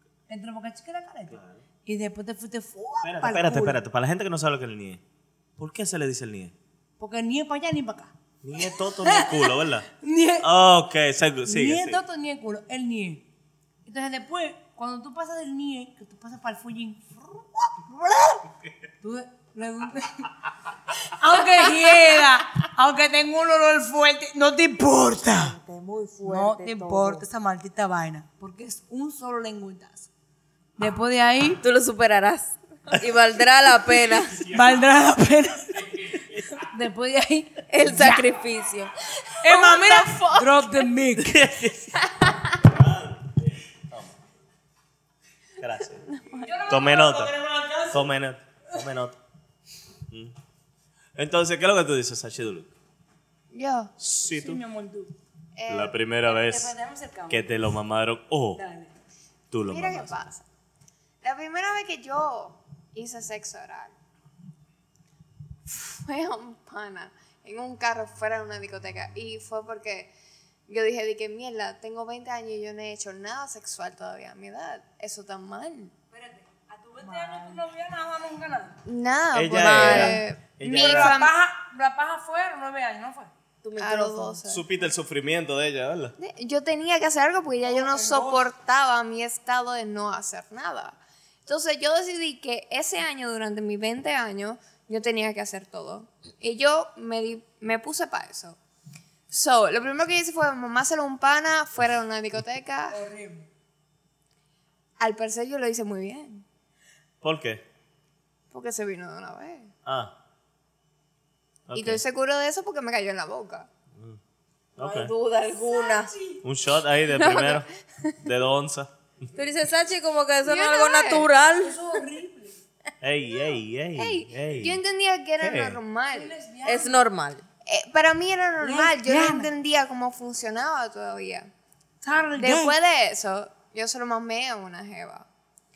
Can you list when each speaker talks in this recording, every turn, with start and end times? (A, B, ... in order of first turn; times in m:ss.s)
0:00.3-0:03.8 A
0:01.3-0:01.6 B
0:03.0-0:05.0 B
0:05.6-0:06.5 B
0:07.0-0:08.1 A
0:08.4-0:09.9 B
0:09.0-0:10.5 A
0:10.4-0:12.0 B
0:11.4-0:13.2 A
0:13.8-0:18.4 A
0:19.0-0:20.3 A
0:21.0-0:25.5 A
0:25.3-0:27.2 C
0:26.2-0:30.1 A
0:30.8-0:31.6 A
0:31.6-0:34.5 C
0:34.4-0:38.2 A
0:37.7-0:38.9 C
0:39.2-0:40.8 D
0:39.4-0:41.3 A
0:41.2-0:42.0 B
0:42.6-0:43.4 B
0:43.9-0:44.2 B
0:45.6-0:46.1 B
0:46.1-0:46.5 D
0:46.4-0:48.1 A
0:46.7-0:47.3 B
0:47.9-0:49.2 B
0:50.1-0:50.3 B
0:51.1-0:52.7 B
0:53.5-0:53.9 D
0:54.0-0:54.6 B
0:54.3-0:55.1 A
0:55.6-0:56.0 D
0:55.7-0:56.7 B
0:56.2-0:57.5 A
0:57.3-0:58.6 B
0:58.5-0:58.9 A
0:59.5-1:00.2 B
0:59.6-1:00.4 D
1:01.2-1:03.9 D
1:05.6-1:10.1 D
1:10.7-1:15.9 D
1:16.1-1:18.8 A
1:18.8-1:21.3 D
1:19.3-1:21.2 B
1:19.6-1:20.2 C
1:20.7-1:23.3 A
1:23.6-1:24.4 C
1:23.8-1:24.9 D
1:24.5-1:26.1 B
1:26.2-1:38.6 D
1:27.6-1:28.4 A
1:39.3-1:43.0 D
1:42.9-1:43.5 A
1:45.0-1:46.4 D
1:47.2-1:47.6 B
1:48.5-1:49.7 D
1:49.8-1:50.1 B
1:51.7-1:52.0 B
1:51.7-1:53.7 D
1:54.8-1:55.1 B
1:54.8-1:56.1 C
1:55.5-1:56.4 A
1:56.4-1:57.7 B
1:57.2-1:58.1 D
1:58.2-1:58.9 B
1:59.3-2:01.8 C
2:00.4-2:01.3 D
2:01.6-2:02.6 A
2:03.0-2:04.8 B
2:04.0-2:06.3 D
2:05.4-2:05.8 B
2:06.1-2:07.0 A
2:06.6-2:07.4 C
2:07.6-2:11.5 D
2:08.6-2:09.5 A
2:12.0-2:12.7 A
2:12.4-2:15.3 D